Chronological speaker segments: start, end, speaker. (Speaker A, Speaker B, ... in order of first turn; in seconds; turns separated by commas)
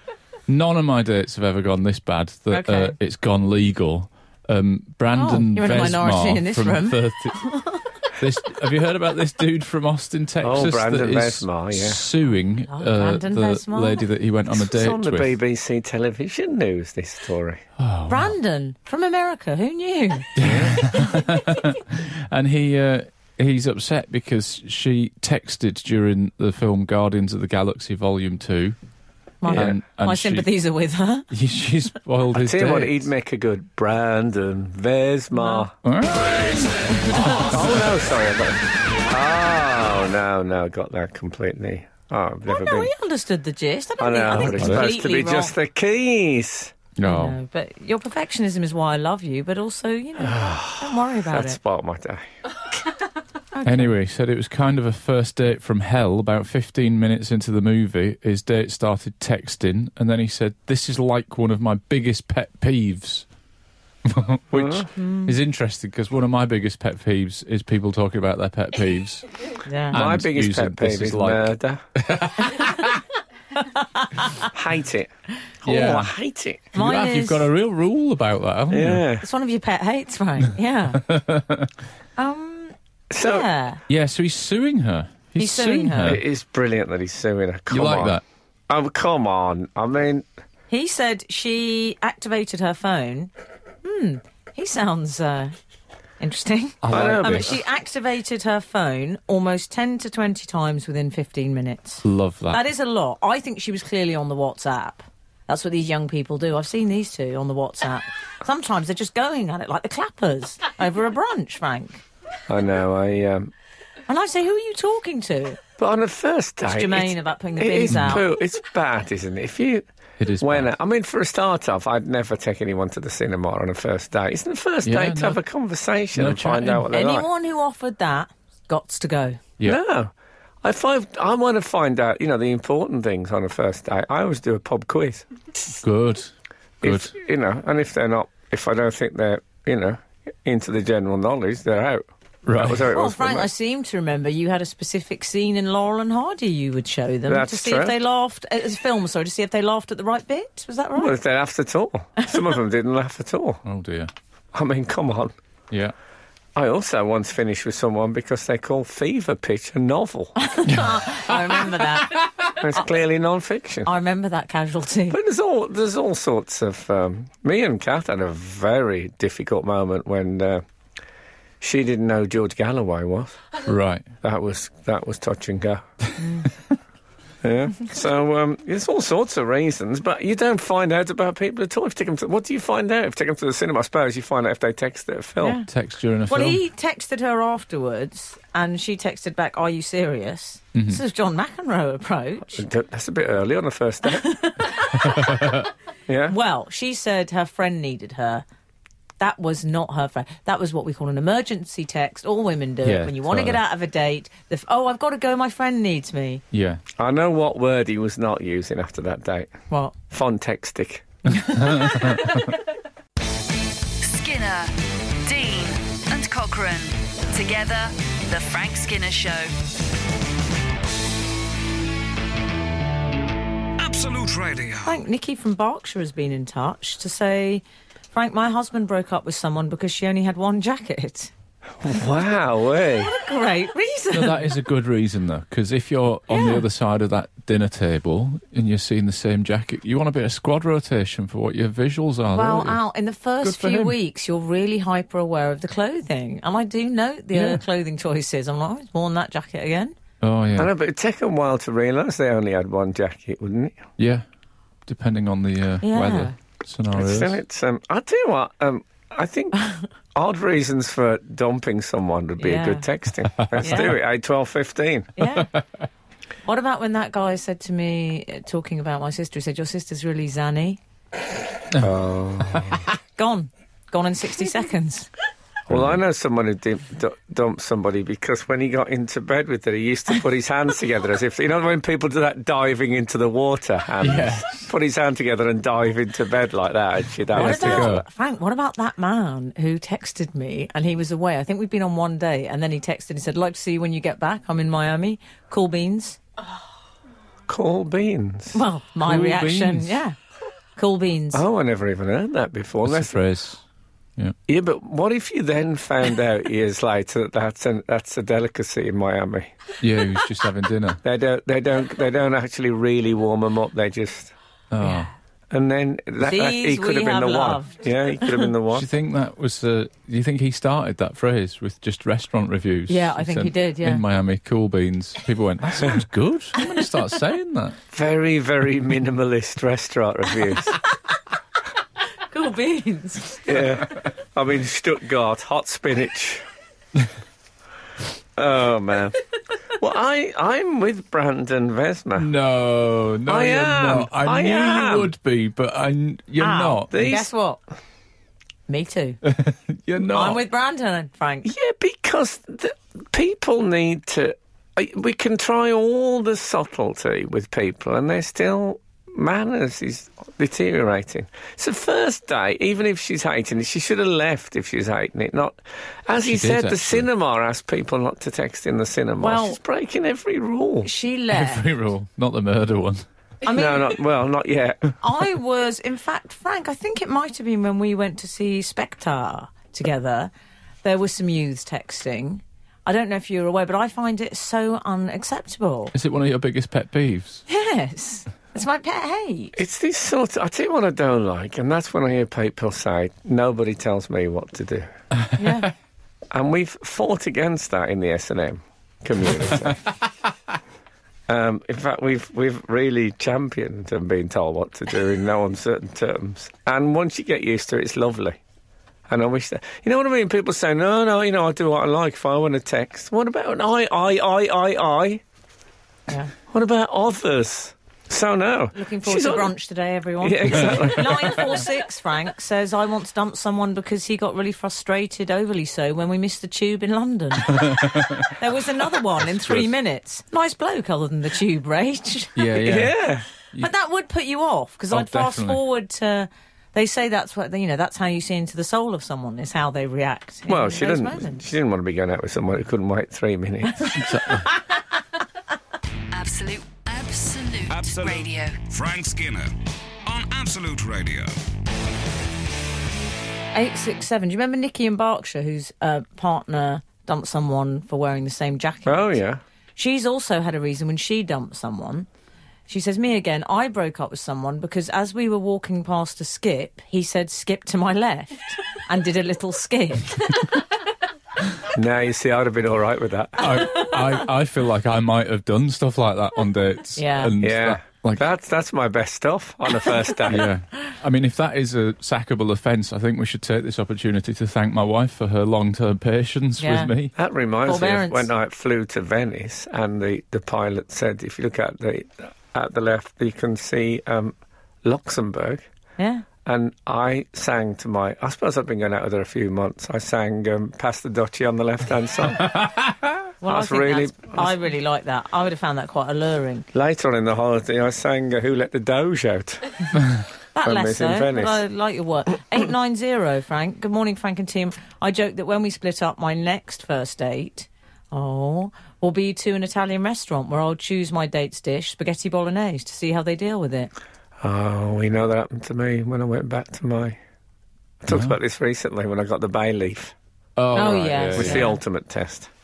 Speaker A: 0.5-7.5, Speaker B: 2.5-3.0, Speaker B: 5.2-7.8, Speaker A: 8.2-15.3, Speaker C: 10.4-12.0, Speaker B: 12.7-14.0, Speaker C: 14.5-17.6, Speaker A: 17.8-18.4, Speaker B: 18.1-20.3, Speaker A: 20.4-28.8, Speaker C: 20.4-20.8, Speaker B: 29.4-31.3, Speaker C: 29.4-29.7, Speaker A: 29.5-30.5, Speaker A: 31.3-33.1, Speaker C: 32.3-35.7, Speaker B: 35.4-35.7, Speaker A: 35.8-37.8, Speaker B: 36.7-37.4, Speaker C: 37.3-42.9, Speaker B: 42.5-45.5, Speaker C: 44.0-46.8, Speaker A: 44.4-44.9, Speaker A: 47.0-47.4, Speaker B: 47.0-51.6, Speaker C: 50.2-52.3, Speaker B: 53.5-53.9, Speaker A: 53.6-63.3, Speaker A: 64.0-69.3, Speaker C: 64.5-64.9, Speaker B: 64.9-65.4, Speaker B: 69.7-70.0, Speaker A: 69.9-73.0, Speaker C: 69.9-71.8, Speaker B: 73.8-74.5, Speaker C: 74.5-75.1, Speaker C: 75.6-76.7, Speaker A: 75.7-76.1, Speaker A: 76.7-79.0, Speaker B: 76.8-77.5, Speaker C: 78.7-79.3, Speaker B: 79.2-81.0, Speaker A: 80.9-81.7, Speaker B: 82.2-83.8, Speaker C: 83.1-83.5, Speaker A: 83.9-86.2, Speaker B: 85.4-86.2, Speaker C: 86.0-90.3, Speaker A: 87.7-88.2, Speaker B: 90.7-93.3, Speaker B: 93.8-95.5, Speaker B: 96.2-112.0, Speaker A: 96.8-97.6, Speaker C: 96.9-97.5, Speaker A: 102.0-102.6, Speaker C: 112.5-113.5, Speaker B: 114.1-115.6, Speaker C: 115.8-119.9, Speaker B: 116.7-118.2, Speaker A: 117.9-118.2, Speaker A: 120.2-120.7, Speaker C: 120.4-127.3, Speaker A: 124.8-125.4, Speaker A: 126.1-126.9, Speaker B: 126.9-129.4, Speaker C: 129.6-135.3, Speaker A: 135.8-136.3, Speaker C: 136.8-143.5, Speaker A: 136.8-137.1, Speaker A: 142.5-142.8, Speaker B: 142.9-151.2, Speaker C: 147.3-148.0, Speaker C: 151.0-153.6, Speaker A: 153.7-154.1, Speaker C: 154.5-155.3, Speaker C: 156.6-160.4, Speaker B: 160.4-162.3, Speaker A: 160.7-161.0, Speaker C: 162.6-163.9, Speaker B: 163.8-165.2, Speaker C: 165.1-170.6, Speaker C: 171.6-173.4, Speaker A: 173.7-174.1, Speaker C: 174.2-175.9, Speaker B: 176.2-176.5, Speaker C: 177.4-185.6, Speaker B: 185.4-185.7, Speaker A: 185.7-186.6, Speaker B: 186.3-192.6, Speaker A: 190.7-191.0, Speaker C: 192.6-194.3, Speaker B: 194.1-195.6, Speaker A: 195.1-195.6, Speaker C: 196.1-196.3, Speaker B: 196.3-198.4, Speaker B: 199.2-206.4, Speaker A: 202.8-203.6, Speaker A: 206.5-206.8, Speaker C: 207.0-209.5, Speaker B: 209.7-209.9, Speaker C: 210.1-211.1, Speaker A: 211.3-212.5, Speaker D: 214.0-219.5, Speaker E: 223.8-225.0, Speaker B: 224.8-231.3, Speaker C: 231.8-233.1, Speaker B: 233.0-234.6, Speaker A: 234.1-242.8, Speaker B: 236.3-236.6, Speaker B: 242.3-249.9, Speaker A: 243.4-243.9, Speaker A: 247.3-247.6, Speaker A: 250.2-250.7, Speaker C: 250.6-253.8, Speaker A: 254.0-254.2, Speaker A: 254.9-257.4, Speaker B: 255.8-256.3, Speaker C: 256.9-259.6, Speaker C: 260.1-265.2, Speaker B: 262.4-262.9, Speaker A: 263.4-263.8, Speaker B: 263.6-263.9, Speaker B: 265.2-265.5, Speaker B: 266.4-270.8, Speaker C: 271.8-272.9, Speaker B: 273.2-275.1, Speaker C: 275.7-288.0, Speaker A: 284.0-284.7, Speaker B: 287.3-296.2, Speaker A: 287.3-288.1, Speaker C: 297.5-298.6, Speaker B: 298.5-300.2, Speaker A: 299.0-299.9, Speaker B: 300.8-301.4, Speaker C: 301.3-303.2, Speaker A: 302.8-303.6, Speaker C: 304.5-309.6, Speaker A: 309.8-311.0, Speaker C: 311.0-314.3, Speaker A: 314.7-315.1, Speaker B: 314.8-315.1, Speaker C: 315.5-318.9, Speaker B: 316.2-318.5, Speaker A: 318.7-327.8, Speaker B: 322.9-324.0, Speaker C: 327.9-330.7, Speaker B: 332.3-333.4, Speaker C: 333.4-336.4, Speaker C: 338.4-339.2, Speaker C: 339.8-342.3, Speaker A: 342.2-347.2, Speaker C: 343.3-345.1, Speaker B: 346.4-347.6, Speaker C: 346.9-347.3, Speaker B: 348.7-349.2, Speaker A: 349.2-350.4, Speaker B: 350.0-351.5, Speaker C: 351.4-370.9, Speaker A: 366.2-367.1, Speaker B: 369.2-369.6, Speaker B: 370.8-371.6, Speaker A: 371.3-373.1, Speaker B: 373.4-374.0, Speaker C: 373.5-374.9, Speaker B: 375.0-380.3, Speaker B: 380.8-385.9, Speaker A: 385.9-387.4, Speaker B: 387.5-389.6, Speaker C: 389.6-394.9, Speaker B: 395.4-395.7, Speaker C: 396.3-399.9, Speaker C: 401.3-408.4, Speaker C: 409.1-415.2, Speaker C: 416.5-419.5, Speaker B: 418.7-432.4, Speaker C: 420.2-421.6, Speaker A: 427.5-428.3, Speaker A: 432.4-433.0, Speaker C: 432.6-433.3, Speaker B: 433.6-441.4, Speaker A: 434.9-435.6, Speaker C: 440.5-444.1, Speaker A: 443.9-444.5, Speaker D: 446.1-448.6, Speaker E: 447.7-449.5, Speaker E: 450.1-451.4, Speaker B: 453.5-459.2, Speaker C: 458.9-459.4, Speaker B: 459.8-462.1, Speaker B: 462.7-470.6, Speaker C: 471.7-473.8, Speaker A: 473.4-478.3, Speaker B: 477.0-477.4, Speaker C: 477.4-480.5, Speaker A: 480.2-487.1, Speaker B: 486.6-486.9, Speaker C: 487.2-495.6, Speaker B: 487.6-488.3, Speaker B: 496.0-496.3, Speaker C: 496.4-502.6, Speaker A: 502.5-502.9, Speaker B: 503.4-506.7, Speaker C: 503.4-504.5, Speaker C: 506.7-509.9, Speaker B: 510.5-523.9, Speaker C: 510.6-511.6, Speaker C: 524.4-527.2, Speaker C: 528.0-530.1, Speaker A: 528.1-528.4, Speaker A: 530.6-531.7, Speaker B: 530.7-531.8, Speaker C: 531.4-532.5